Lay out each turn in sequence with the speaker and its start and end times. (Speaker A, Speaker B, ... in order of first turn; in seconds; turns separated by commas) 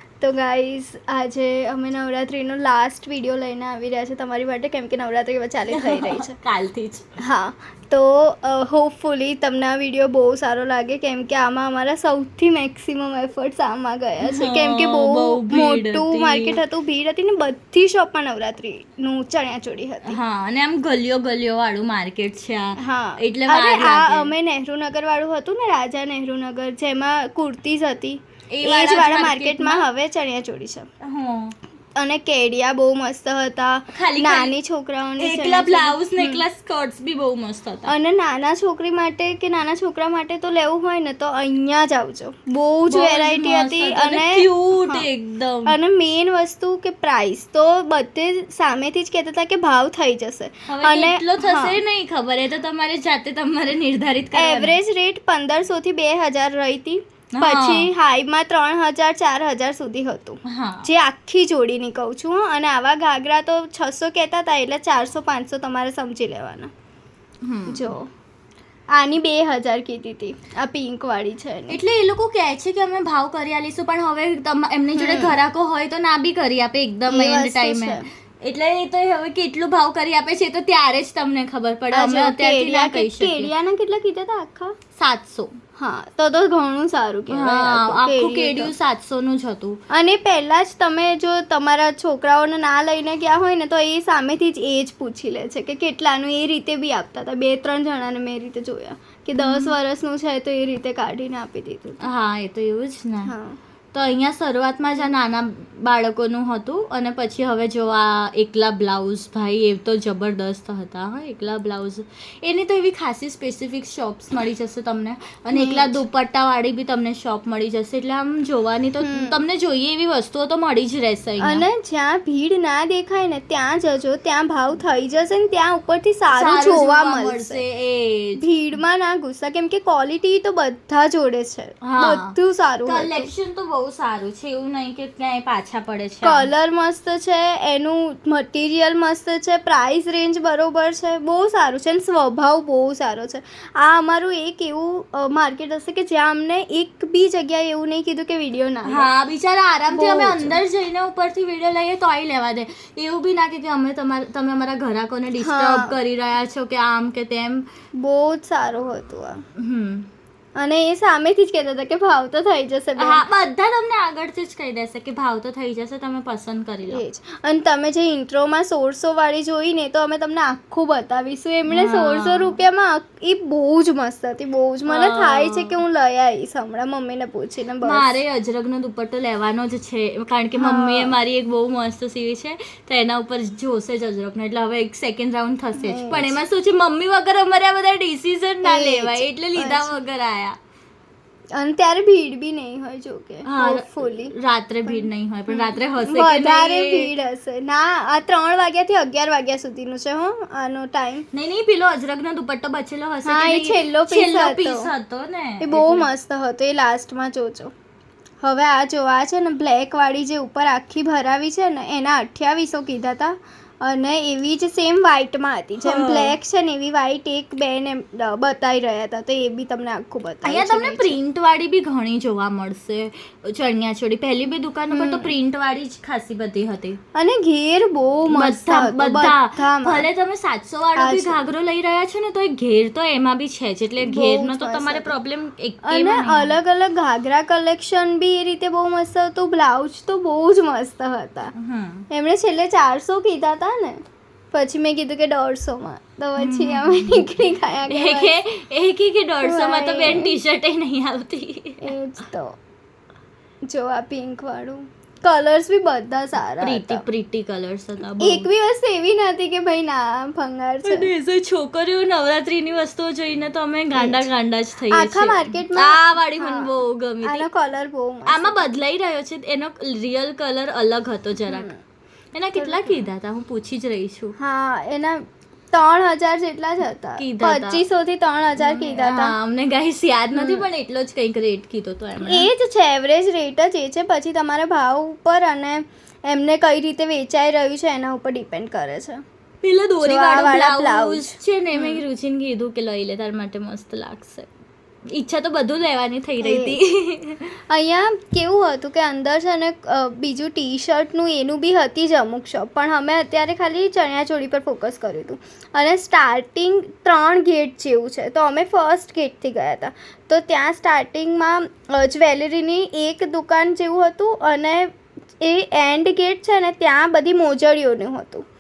Speaker A: 0.2-6.3, Speaker B: 5.7-7.0, Speaker A: 7.2-20.2, Speaker B: 14.2-16.6, Speaker B: 20.1-24.3, Speaker A: 22.8-30.9, Speaker B: 28.5-29.9, Speaker B: 31.0-31.6, Speaker A: 32.0-36.4, Speaker B: 33.9-34.5, Speaker B: 35.2-37.9, Speaker A: 37.9-45.1, Speaker B: 42.9-45.8, Speaker A: 45.7-51.8, Speaker B: 50.7-54.8, Speaker A: 54.3-66.7, Speaker B: 57.3-57.9, Speaker B: 60.5-60.9, Speaker B: 67.4-67.9, Speaker A: 67.7-68.1, Speaker A: 68.9-71.8, Speaker B: 71.7-83.5, Speaker A: 74.9-75.4, Speaker A: 77.1-78.1, Speaker A: 81.9-84.7, Speaker B: 85.0-85.5, Speaker A: 85.8-88.7, Speaker B: 87.3-89.8, Speaker A: 89.9-102.1, Speaker B: 99.4-99.8, Speaker B: 102.0-103.3, Speaker A: 103.3-103.6, Speaker B: 103.9-121.7, Speaker A: 115.5-116.0, Speaker A: 119.0-119.4, Speaker A: 121.4-127.6, Speaker B: 126.3-128.4, Speaker A: 128.4-133.3, Speaker B: 131.8-132.3, Speaker B: 132.8-136.5, Speaker A: 136.2-149.1, Speaker B: 148.8-157.7, Speaker A: 149.9-150.6, Speaker A: 155.4-156.0, Speaker A: 158.0-159.4, Speaker B: 159.6-160.1, Speaker A: 160.6-163.3, Speaker B: 163.0-167.0, Speaker A: 166.9-178.2, Speaker B: 171.7-172.6, Speaker B: 174.9-175.8, Speaker B: 177.8-190.6, Speaker A: 180.6-181.2, Speaker A: 185.8-186.4, Speaker A: 188.6-190.0, Speaker A: 191.5-194.3, Speaker B: 193.4-197.1, Speaker A: 194.9-201.3, Speaker B: 201.3-206.1, Speaker A: 203.3-204.9, Speaker A: 205.6-207.7, Speaker A: 208.4-221.2, Speaker B: 215.8-216.3, Speaker B: 220.4-227.0, Speaker A: 224.9-225.3, Speaker A: 227.2-230.1, Speaker B: 228.3-236.6, Speaker A: 231.0-231.4, Speaker A: 234.0-235.2, Speaker A: 235.8-241.5, Speaker B: 241.6-242.1, Speaker A: 242.1-244.0, Speaker A: 244.5-248.4, Speaker B: 246.4-247.3, Speaker B: 247.9-251.9, Speaker A: 249.4-250.4, Speaker A: 251.8-252.6, Speaker A: 253.7-257.0, Speaker B: 256.6-258.5, Speaker A: 258.2-261.1, Speaker B: 260.8-267.5, Speaker A: 263.9-264.3, Speaker A: 264.9-268.6, Speaker B: 268.3-271.7, Speaker A: 271.5-271.8, Speaker B: 272.3-274.4, Speaker A: 272.6-273.1, Speaker A: 274.4-279.4, Speaker B: 277.2-277.8, Speaker B: 278.6-282.5, Speaker A: 280.3-280.6, Speaker A: 282.2-289.2, Speaker B: 289.6-294.5, Speaker A: 290.0-292.0, Speaker B: 295.1-297.5, Speaker A: 296.4-296.8, Speaker A: 297.7-318.4